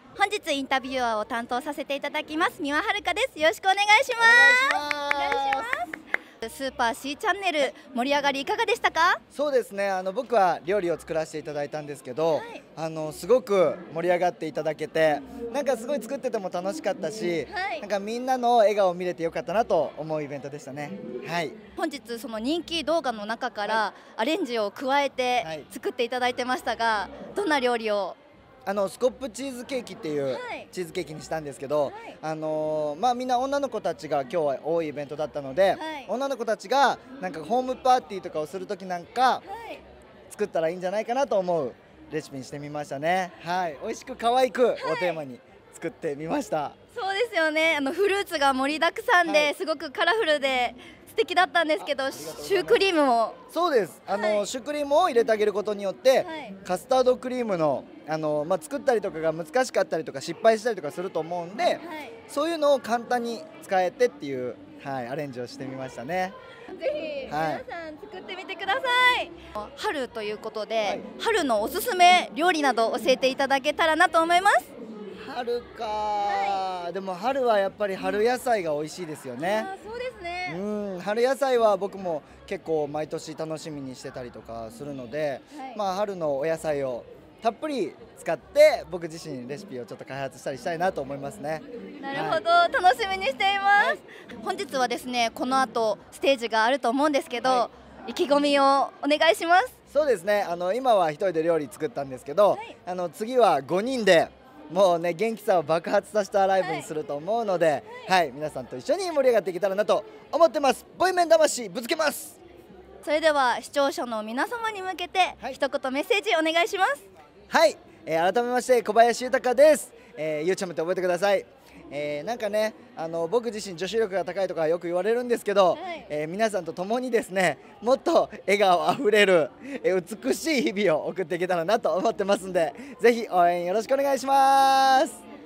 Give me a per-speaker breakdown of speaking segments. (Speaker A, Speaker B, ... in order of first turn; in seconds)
Speaker A: 0.1-9.2, 12.3-12.6, 17.5-17.9, 21.8-28.2, 30.3-30.7, 31.9-32.1, 35.7-36.1, 39.4-39.8, 44.8-45.2, 46.9-53.4, 54.1-54.5, 56.2-56.6, 61.8-62.1, 66.7-74.7, 76.2-76.6, 79.4-80.6, 85.5-85.8, 92.0-99.8, 106.6-106.9, 113.0-117.0, 125.7-126.0
Speaker B: 4.2-5.8, 9.3-21.6, 25.4-25.7, 28.6-39.4, 40.3-46.8, 49.2-49.5, 51.8-52.8, 53.5-66.3, 67.3-67.6, 75.2-79.7, 80.5-92.4, 93.8-94.0, 97.4-97.7, 99.9-112.4, 117.5-135.2